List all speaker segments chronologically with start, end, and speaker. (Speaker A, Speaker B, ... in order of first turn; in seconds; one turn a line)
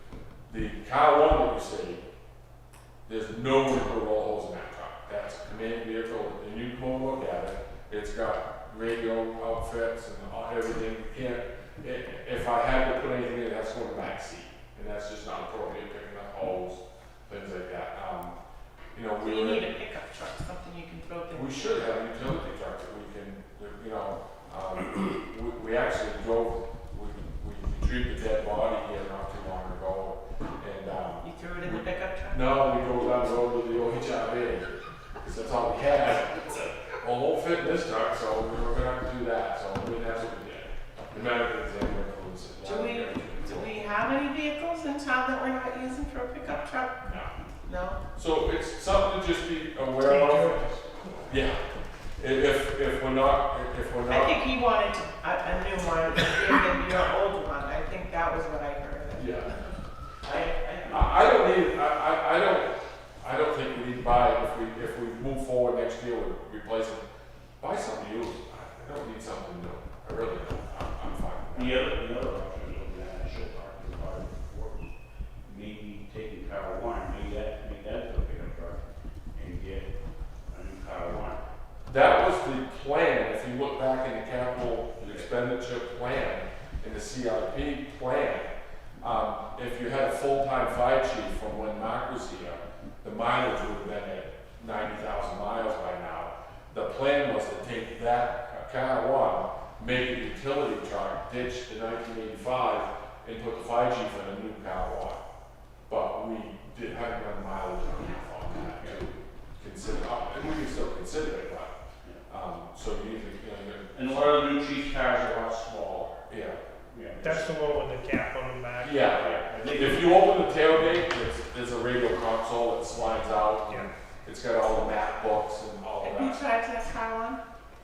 Speaker A: 0.5-2.0
Speaker A: 3.1-18.4
Speaker A: 18.9-19.6
Speaker B: 19.2-21.9
Speaker A: 21.3-34.7
Speaker B: 31.2-32.6
Speaker A: 35.2-43.7
Speaker B: 42.6-47.0
Speaker A: 47.0-47.3
Speaker B: 47.6-48.0
Speaker A: 48.1-50.6
Speaker C: 50.0-51.2
Speaker A: 51.3-51.6
Speaker A: 52.2-54.4
Speaker B: 54.1-59.7
Speaker A: 59.2-59.5
Speaker D: 60.2-61.2
Speaker A: 60.9-67.0
Speaker A: 67.6-71.9
Speaker D: 71.5-74.9
Speaker D: 75.5-78.8
Speaker D: 79.3-79.9
Speaker D: 80.5-81.4
Speaker A: 81.9-105.2
Speaker D: 85.0-85.3
Speaker A: 105.9-111.7
Speaker D: 108.8-109.0
Speaker A: 112.3-114.4
Speaker D: 113.9-116.3
Speaker A: 116.3-116.6
Speaker D: 116.9-117.5
Speaker C: 117.2-119.0
Speaker A: 118.8-126.4
Speaker D: 119.0-120.9
Speaker B: 126.0-127.4